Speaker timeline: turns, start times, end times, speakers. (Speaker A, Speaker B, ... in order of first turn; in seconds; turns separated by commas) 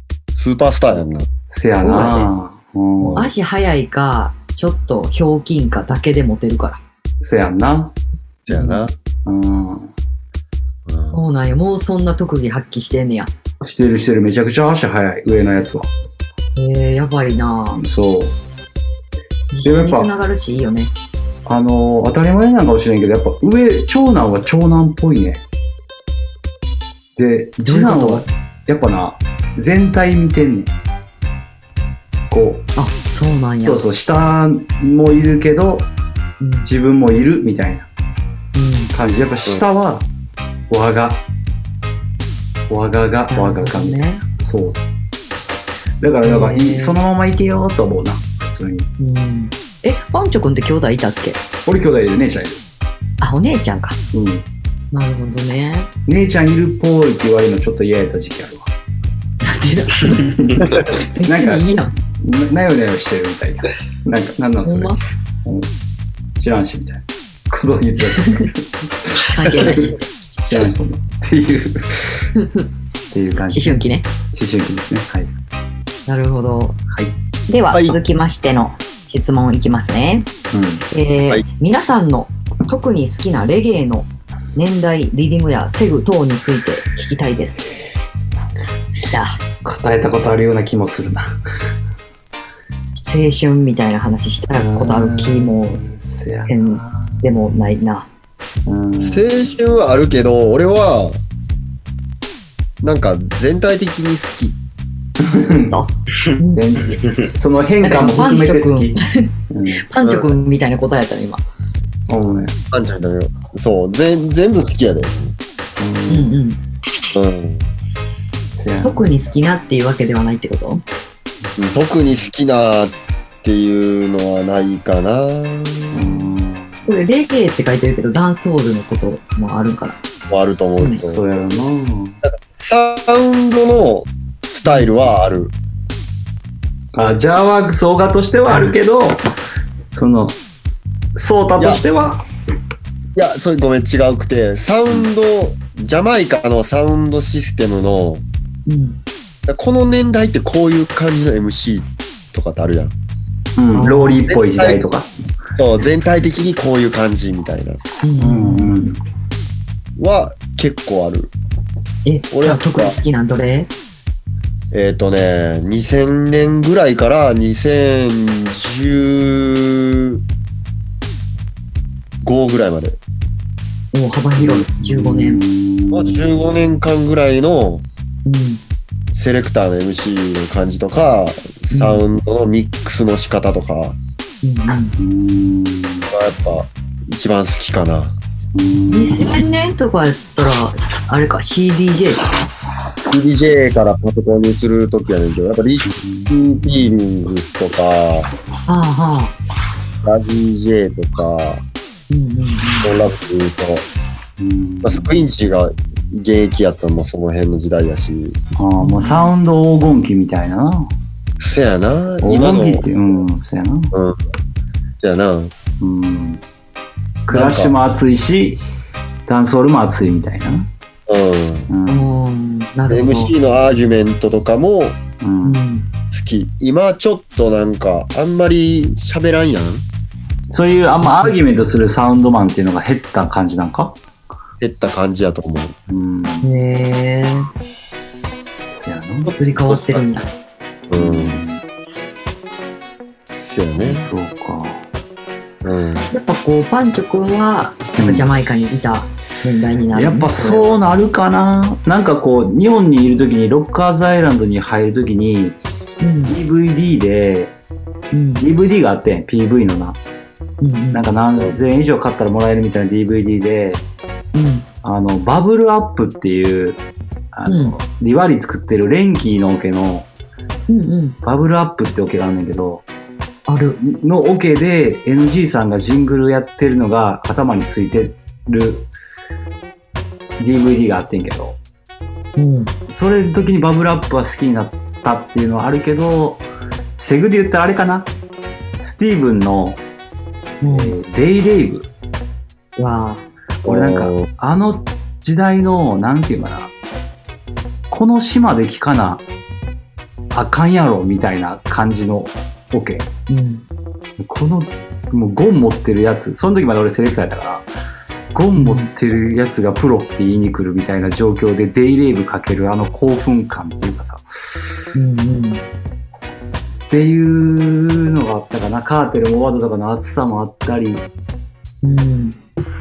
Speaker A: 0.3-1.3, Speaker B: 1.5-3.3, Speaker C: 1.8-2.3, Speaker A: 3.0-3.3, Speaker C: 3.2-6.8, Speaker B: 7.2-8.0, Speaker A: 8.5-8.9, Speaker C: 8.5-8.8, Speaker B: 9.2-9.9, Speaker A: 10.9-11.2, Speaker C: 11.1-13.3, Speaker B: 13.6-15.9, Speaker C: 16.6-17.8, Speaker B: 17.7-18.4, Speaker C: 19.5-20.9, Speaker B: 19.6-20.1, Speaker B: 21.4-25.4, Speaker B: 27.2-30.7, Speaker C: 27.6-28.3, Speaker B: 32.3-32.7, Speaker C: 32.8-33.8, Speaker B: 33.6-35.9, Speaker C: 36.4-36.7, Speaker B: 36.6-37.9, Speaker C: 38.5-38.9, Speaker B: 38.9-40.1, Speaker B: 40.7-41.2, Speaker B: 42.7-44.8, Speaker C: 43.3-44.2, Speaker B: 46.0-48.9, Speaker C: 46.2-47.0, Speaker C: 49.0-51.4, Speaker B: 51.7-52.6, Speaker C: 53.2-54.0, Speaker B: 54.1-54.5, Speaker C: 54.9-55.9, Speaker B: 56.1-58.7, Speaker C: 59.4-61.9, Speaker B: 60.0-65.7, Speaker C: 64.6-65.0, Speaker B: 66.4-72.3, Speaker C: 69.2-70.0, Speaker C: 72.4-72.7, Speaker B: 73.1-75.3, Speaker C: 73.5-74.1, Speaker C: 76.1-76.8, Speaker C: 77.5-80.3, Speaker A: 77.7-78.0, Speaker B: 80.5-80.9, Speaker C: 80.9-87.7, Speaker C: 89.0-89.4, Speaker B: 89.6-91.4, Speaker C: 93.0-95.8, Speaker B: 94.5-97.2, Speaker C: 96.4-98.1, Speaker B: 98.7-99.5, Speaker A: 99.0-101.2, Speaker A: 102.8-104.6, Speaker B: 105.2-105.8, Speaker C: 105.6-106.6, Speaker B: 106.5-109.0, Speaker C: 107.8-111.4, Speaker B: 109.5-109.9, Speaker A: 110.0-110.3, Speaker B: 112.1-112.6, Speaker A: 112.7-115.4, Speaker B: 115.8-116.4, Speaker C: 116.1-116.6, Speaker A: 117.1-117.6, Speaker B: 118.6-119.1, Speaker C: 118.8-120.8, Speaker A: 121.6-126.2, Speaker B: 125.9-126.9, Speaker C: 126.9-130.0, Speaker A: 130.3-131.2, Speaker B: 130.7-132.2, Speaker A: 132.2-135.5, Speaker B: 136.9-139.3, Speaker C: 138.5-138.8, Speaker B: 139.9-140.4, Speaker B: 141.1-142.2, Speaker A: 141.6-141.8, Speaker A: 143.1-148.2, Speaker C: 148.7-149.0, Speaker A: 149.5-152.9, Speaker B: 153.6-155.1, Speaker C: 153.7-154.2, Speaker A: 154.3-154.8, Speaker A: 155.6-157.8, Speaker C: 158.0-158.7, Speaker B: 158.2-159.0, Speaker A: 160.0-161.3, Speaker C: 162.1-163.7, Speaker A: 162.3-163.0, Speaker A: 164.7-170.2, Speaker A: 172.2-173.0, Speaker C: 173.9-175.4, Speaker B: 174.4-176.3, Speaker A: 175.9-177.8, Speaker C: 178.2-178.6, Speaker A: 179.1-184.0, Speaker C: 181.7-182.1, Speaker C: 184.4-184.9, Speaker B: 185.0-186.1, Speaker A: 186.1-188.1, Speaker B: 188.6-189.4, Speaker C: 188.9-192.3, Speaker A: 193.1-198.3, Speaker B: 195.8-196.3, Speaker C: 198.7-199.3, Speaker A: 200.0-201.6, Speaker C: 202.1-203.0, Speaker A: 202.8-203.9, Speaker B: 204.4-205.2, Speaker A: 204.8-208.4, Speaker B: 208.6-210.9, Speaker C: 208.8-209.3, Speaker A: 211.4-212.9, Speaker B: 212.2-213.9, Speaker A: 213.9-214.2, Speaker A: 215.0-215.5, Speaker B: 215.8-216.4, Speaker B: 217.3-218.6, Speaker A: 217.3-217.7, Speaker B: 219.3-220.7, Speaker A: 221.1-221.7, Speaker B: 221.7-222.1, Speaker C: 221.9-223.3, Speaker A: 222.9-225.0, Speaker B: 225.2-225.6, Speaker C: 225.4-225.9, Speaker A: 226.1-229.8, Speaker B: 230.5-234.0, Speaker C: 231.0-231.3, Speaker A: 234.6-235.7, Speaker B: 235.9-236.5, Speaker C: 236.4-237.5, Speaker B: 238.7-239.3, Speaker A: 239.3-240.1, Speaker C: 239.3-240.3, Speaker A: 240.9-241.4, Speaker B: 240.9-241.6, Speaker A: 243.4-244.1, Speaker B: 243.8-244.9, Speaker A: 245.6-246.1, Speaker C: 246.1-250.6, Speaker B: 248.0-248.2, Speaker B: 249.9-255.6, Speaker C: 256.0-256.4, Speaker B: 256.3-257.6, Speaker C: 258.1-258.4, Speaker B: 258.4-260.0, Speaker C: 260.6-261.0, Speaker B: 260.9-263.8, Speaker C: 264.3-264.6, Speaker B: 264.8-270.1, Speaker C: 267.4-267.8, Speaker C: 270.7-271.1, Speaker B: 271.2-272.9, Speaker C: 273.5-273.8, Speaker B: 273.8-278.9, Speaker B: 280.4-281.6, Speaker C: 282.4-282.7, Speaker B: 282.9-286.4, Speaker B: 287.0-288.1, Speaker B: 288.8-289.8, Speaker C: 290.6-290.9, Speaker B: 290.6-291.9, Speaker C: 292.8-293.2, Speaker B: 293.6-296.7, Speaker A: 293.6-294.3, Speaker B: 297.9-299.2, Speaker B: 300.3-303.1, Speaker C: 303.3-303.6, Speaker B: 304.2-307.7, Speaker B: 308.3-314.6, Speaker C: 308.6-308.9, Speaker C: 314.9-315.6, Speaker B: 316.9-321.1, Speaker C: 321.8-322.4